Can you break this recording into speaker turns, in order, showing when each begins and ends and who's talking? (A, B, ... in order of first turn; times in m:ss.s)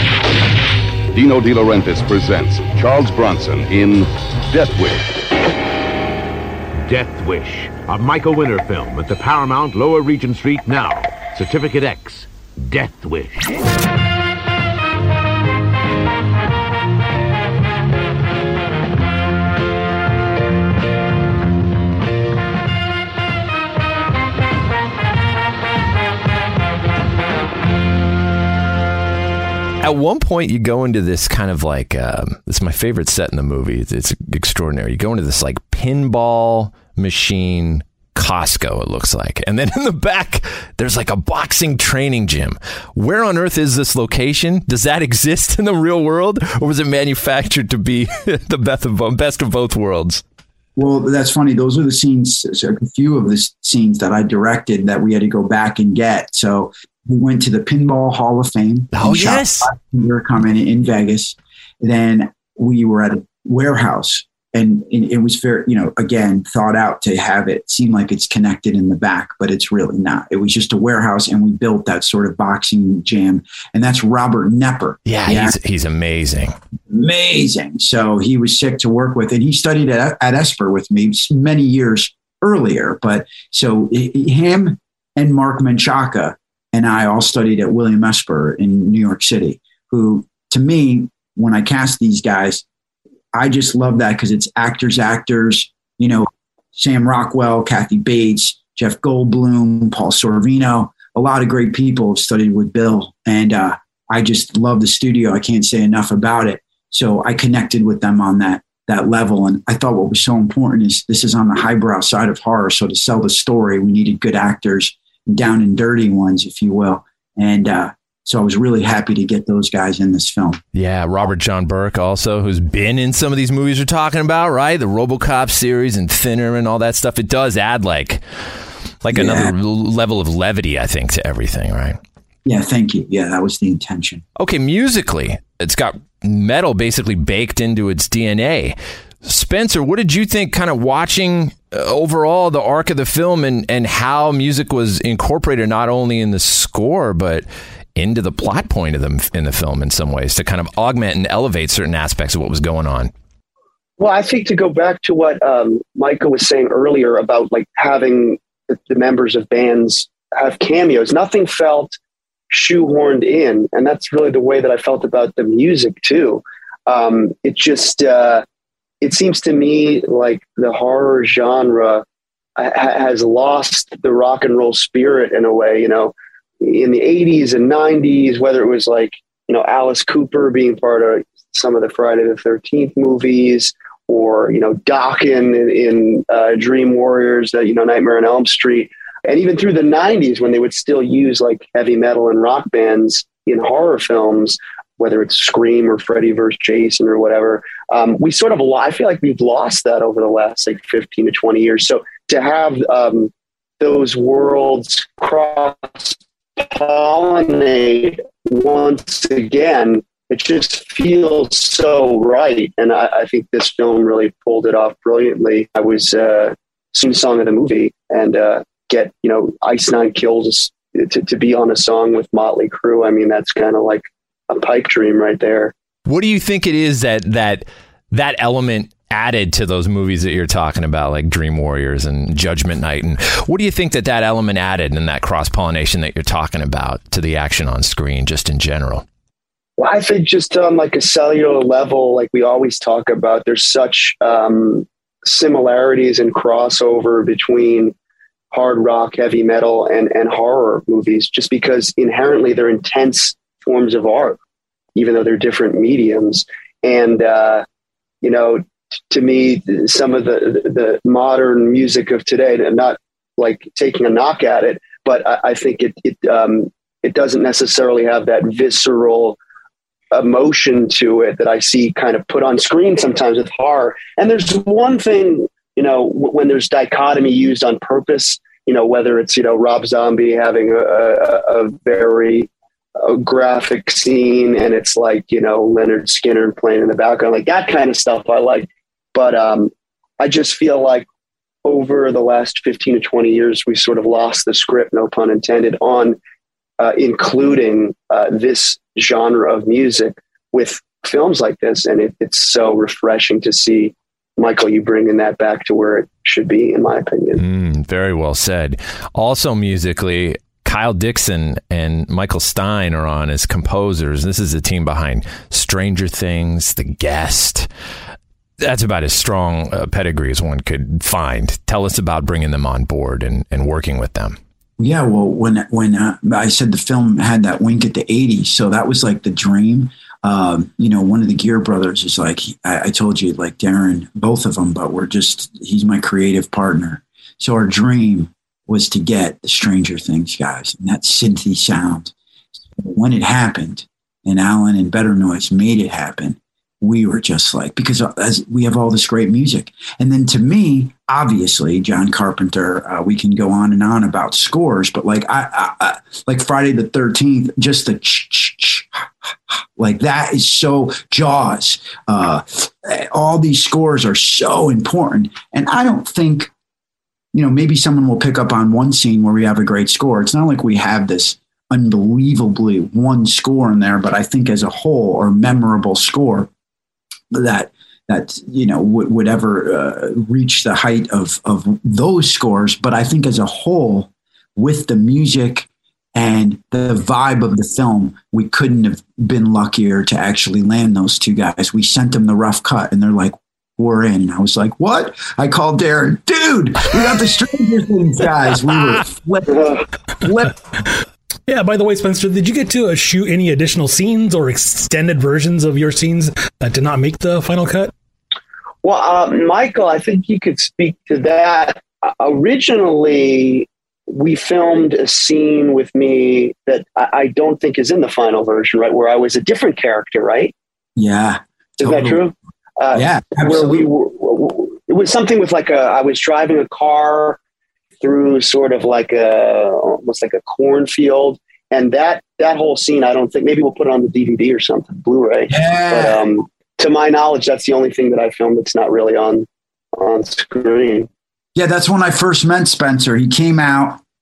0:01.1-0:05.2 A
0:06.8-0:13.6 B
0:29.8-0:50.2 C
0:50.8-1:15.6 D
0:58.9-0:59.7 C
1:15.0-1:16.6 C
1:16.9-1:32.6 D
1:33.3-2:00.6 D
2:00.7-2:08.2 C
2:09.0-2:12.0 C
2:09.1-2:09.5 D
2:12.4-2:14.2 D
2:14.4-2:33.1 C
2:34.0-2:42.0 E
2:42.5-2:48.4 E
2:49.0-2:52.0 E
2:52.6-3:45.7 E
3:46.0-3:59.0 C
3:59.8-4:07.9 E
4:08.5-4:14.4 E
4:14.9-4:17.6 E
4:18.2-4:29.4 E
4:30.1-4:51.1 E
4:51.6-4:56.2 E
4:56.8-5:07.4 E
5:07.4-5:17.7 C
5:18.6-5:24.4 C
5:24.8-5:42.1 D
5:42.7-6:06.5 D
6:07.3-6:16.5 D
6:17.3-6:40.6 D
6:41.5-6:47.9 F
6:48.8-7:00.5 E
7:01.0-7:02.2 D
7:01.8-7:07.4 E
7:02.9-7:03.9 D
7:08.0-7:21.1 E
7:15.5-7:16.2 D
7:21.5-7:24.0 D